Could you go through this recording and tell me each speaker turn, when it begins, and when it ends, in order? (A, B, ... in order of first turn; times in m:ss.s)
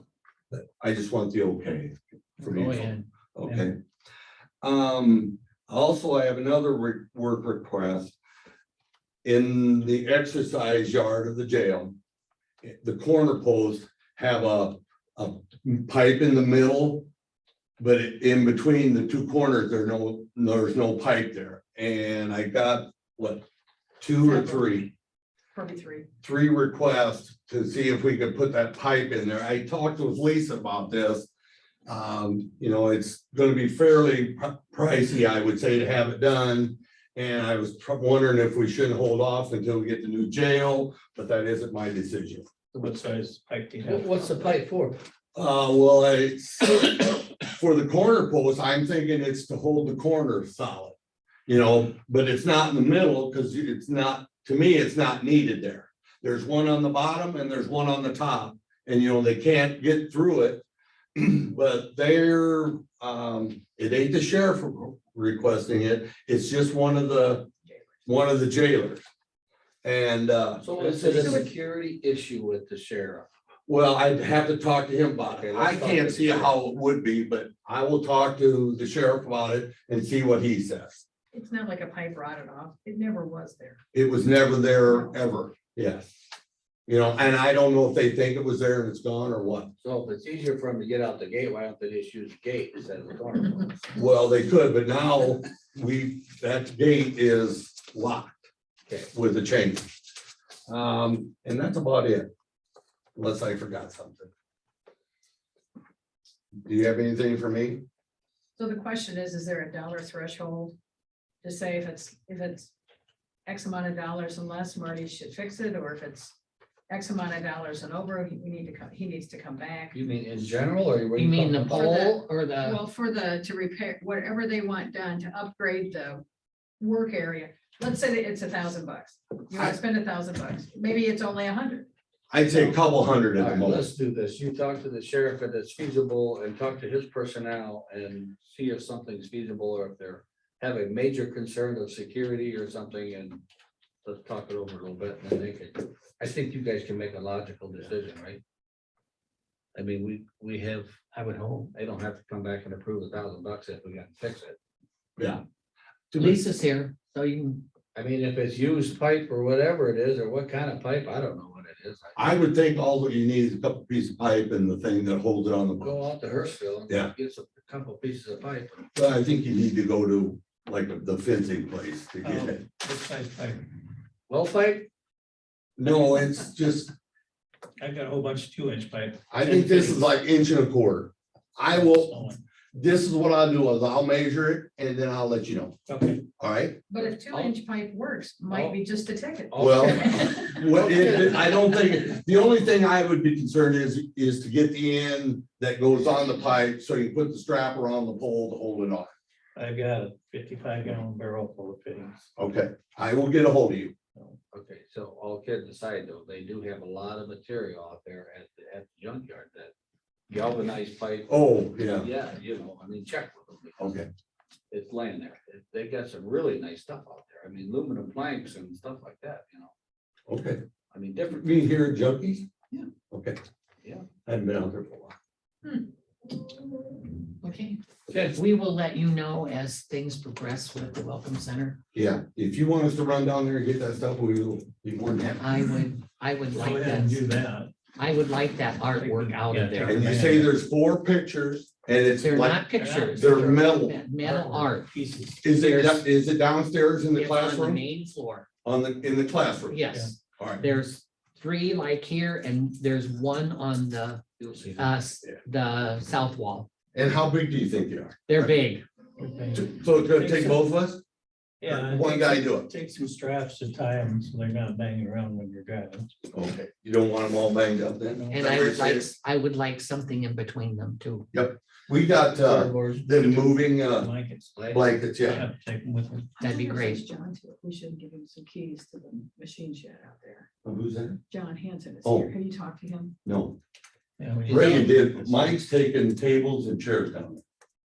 0:00.5-0:03.8 A
0:02.5-0:03.0 B
0:04.6-0:08.1 A
0:09.2-0:12.0 A
0:12.6-0:17.1 A
0:17.8-0:23.4 A
0:24.0-0:24.9 A
0:24.2-0:24.8 C
0:25.5-0:26.1 C
0:26.2-0:31.3 A
0:31.9-0:42.4 A
0:42.7-0:44.4 D
0:43.8-0:45.0 E
0:45.3-0:51.0 A
0:51.5-1:07.5 A
1:08.0-1:09.0 A
1:09.8-1:11.5 A
1:10.6-1:13.3 E
1:11.2-1:11.5 C
1:13.7-1:21.0 A
1:15.2-1:16.6 E
1:21.3-1:23.8 C
1:23.9-1:26.1 A
1:24.9-1:25.2 C
1:26.9-1:29.7 A
1:29.8-1:33.8 E
1:33.9-1:38.4 A
1:39.1-1:39.9 A
1:40.7-1:42.3 A
1:43.1-1:44.3 A
1:46.6-1:47.8 A
1:48.6-1:50.7 C
1:51.4-1:52.7 C
1:53.4-1:56.3 C
1:56.9-2:00.0 C
1:59.9-2:01.8 E
2:01.1-2:02.8 B
2:01.7-2:06.2 C
2:06.8-2:11.9 C
2:12.3-2:13.9 A
2:12.4-2:12.8 E
2:13.3-2:23.4 E
2:24.0-2:28.4 E
2:29.7-2:34.6 E
2:31.2-2:31.5 B
2:35.2-2:35.4 A
2:36.1-2:36.4 A
2:36.2-2:37.6 B
2:37.9-2:42.2 E
2:42.2-2:46.0 A
2:45.8-2:48.9 E
2:46.9-2:47.1 A
2:48.9-2:52.6 A
2:52.2-2:53.6 D
2:54.3-2:54.9 E
2:55.8-2:56.9 A
2:57.8-3:00.0 D
2:59.3-3:02.2 A
3:01.7-3:02.4 D
3:02.7-3:05.8 A
3:05.9-3:06.2 D
3:06.4-3:06.8 A
3:06.9-3:10.5 C
3:07.1-3:07.5 E
3:08.5-3:08.8 E
3:09.5-3:11.6 E
3:09.6-3:19.1 A
3:19.6-3:22.2 D
3:22.4-3:23.9 A
3:24.5-3:29.7 E
3:30.3-3:34.0 E
3:31.3-3:32.1 A
3:33.8-3:34.1 A
3:34.7-3:39.7 E
3:40.3-3:40.6 A
3:40.9-3:41.7 E
3:41.4-3:42.5 A
3:43.1-3:43.4 A
3:44.2-3:45.1 A
3:47.4-3:51.8 B
3:51.9-3:55.4 A
3:55.4-3:57.2 B
3:56.5-3:57.7 D
3:58.0-4:00.3 B
3:58.9-4:00.5 D
3:59.8-4:02.6 A
4:02.2-4:04.9 B
4:02.8-4:03.6 D
4:03.2-4:04.0 A
4:04.2-4:06.0 D
4:05.4-4:07.8 A
4:07.1-4:08.5 B
4:08.6-4:09.9 A
4:09.7-4:14.2 B
4:10.4-4:10.6 A
4:14.4-4:14.9 E
4:14.8-4:16.7 B
4:16.9-4:18.5 A
4:18.3-4:18.8 B
4:19.2-4:20.6 D
4:19.5-4:21.0 A
4:21.6-4:26.1 D
4:21.6-4:22.7 A
4:26.3-4:29.1 A
4:28.1-4:28.4 D
4:28.3-4:31.3 B
4:31.3-4:34.1 A
4:32.3-4:33.1 E
4:33.1-4:34.6 D
4:34.5-4:34.9 E
4:34.7-4:35.4 A
4:35.2-4:36.4 D
4:36.4-4:40.5 C
4:36.4-4:37.0 B
4:40.6-4:41.2 A
4:41.3-4:43.1 C
4:42.0-4:42.3 A
4:43.2-4:43.6 A
4:44.2-4:45.5 D
4:44.5-4:47.4 A